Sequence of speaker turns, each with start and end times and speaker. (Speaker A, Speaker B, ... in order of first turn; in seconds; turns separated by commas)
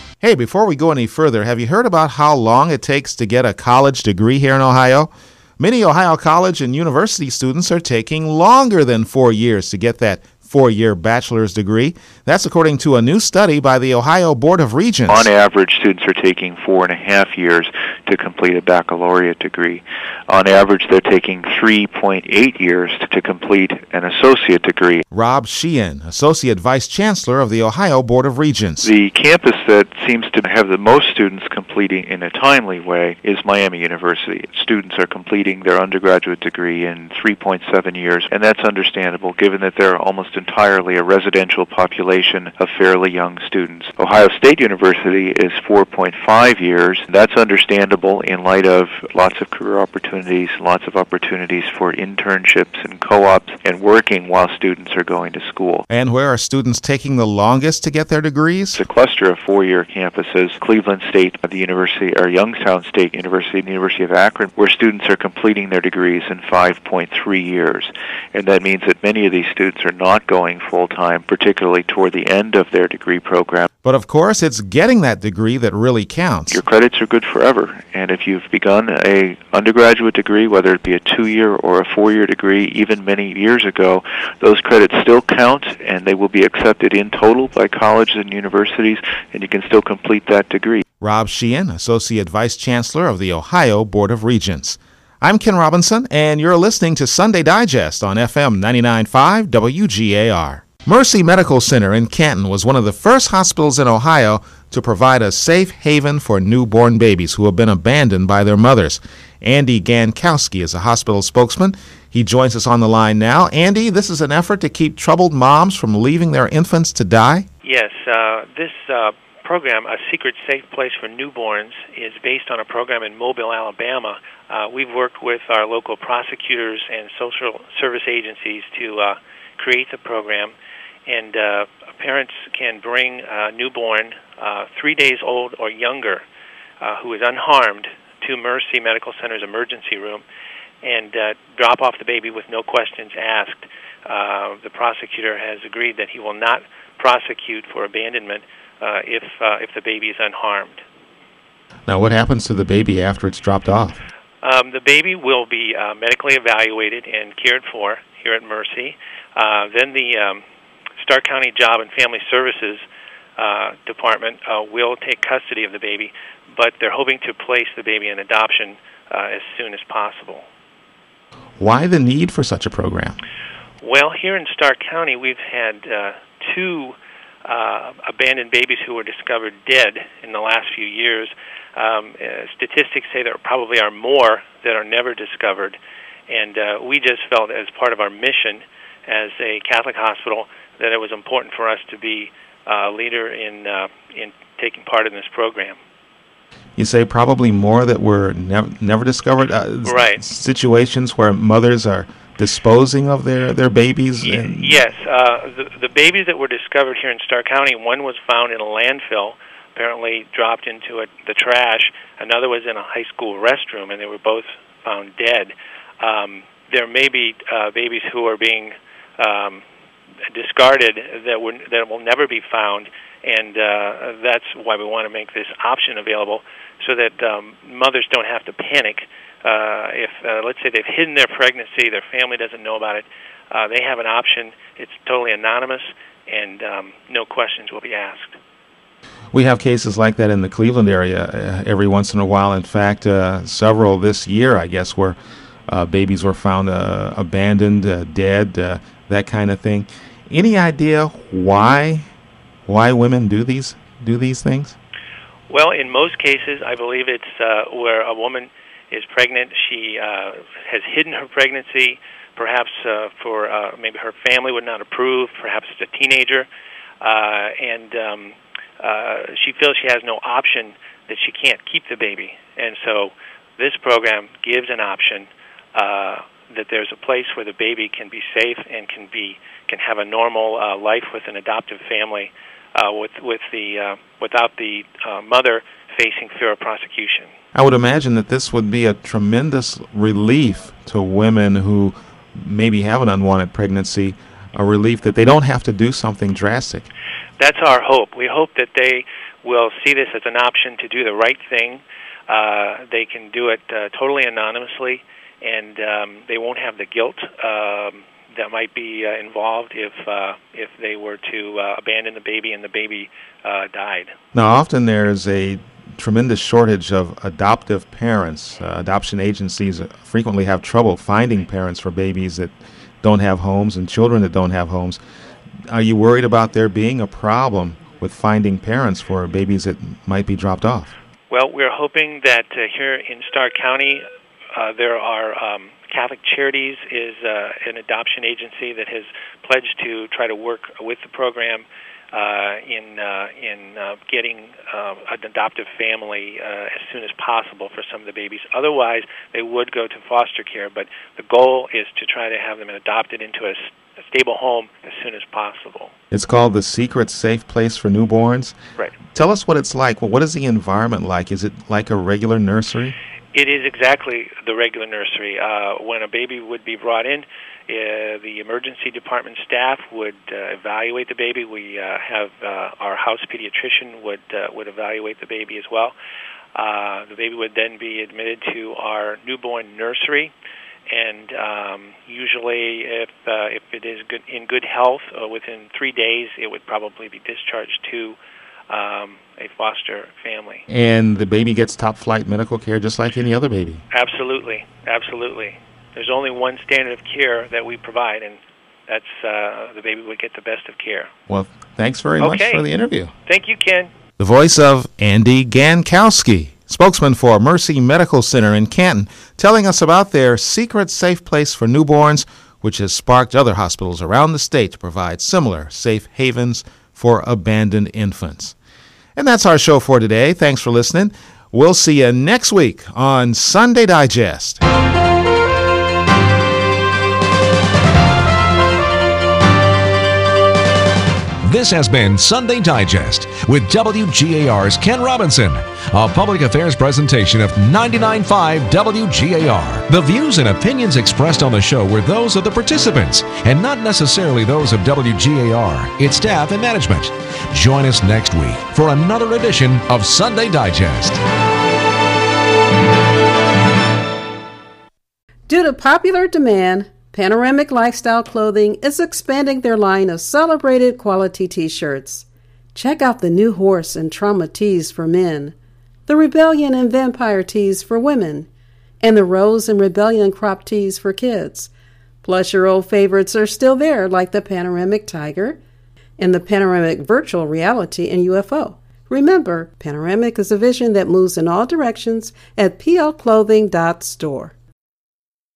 Speaker A: 0.2-15.3, Speaker B: 15.1-25.0, Speaker A: 25.1-28.9, Speaker B: 28.8-55.9, Speaker A: 55.9-58.8, Speaker B: 58.7-73.7, Speaker A: 73.8-76.6, Speaker B: 76.5-90.8, Speaker A: 91.0-117.5, Speaker C: 117.6-130.5, Speaker C: 131.1-136.2, Speaker C: 136.8-140.2, Speaker C: 140.8-150.8, Speaker A: 151.9-154.0, Speaker C: 154.4-160.4, Speaker C: 161.0-162.8, Speaker C: 163.4-170.4, Speaker A: 171.6-173.2, Speaker C: 173.8-185.8, Speaker C: 186.3-195.8, Speaker A: 196.8-204.8, Speaker C: 199.8-200.2, Speaker C: 204.3-219.6, Speaker C: 220.3-238.4, Speaker A: 239.3-245.2, Speaker A: 245.7-252.1, Speaker A: 252.7-254.8, Speaker C: 255.5-266.5, Speaker C: 267.0-287.3, Speaker A: 287.5-296.9, Speaker C: 297.4-314.1, Speaker A: 314.3-325.0, Speaker A: 325.7-330.9, Speaker C: 331.3-355.9, Speaker A: 356.1-358.6, Speaker A: 359.1-362.9, Speaker C: 363.3-375.9, Speaker C: 376.5-380.3, Speaker C: 380.9-388.2, Speaker C: 388.7-390.6, Speaker A: 390.7-393.8, Speaker C: 393.9-401.1, Speaker A: 401.3-403.1, Speaker C: 402.2-402.6, Speaker C: 403.2-403.9, Speaker A: 404.2-418.6, Speaker A: 419.1-424.6, Speaker D: 431.4-451.2, Speaker E: 455.5-465.5, Speaker E: 466.1-468.5, Speaker E: 469.0-471.7, Speaker E: 472.2-475.6, Speaker E: 476.2-484.5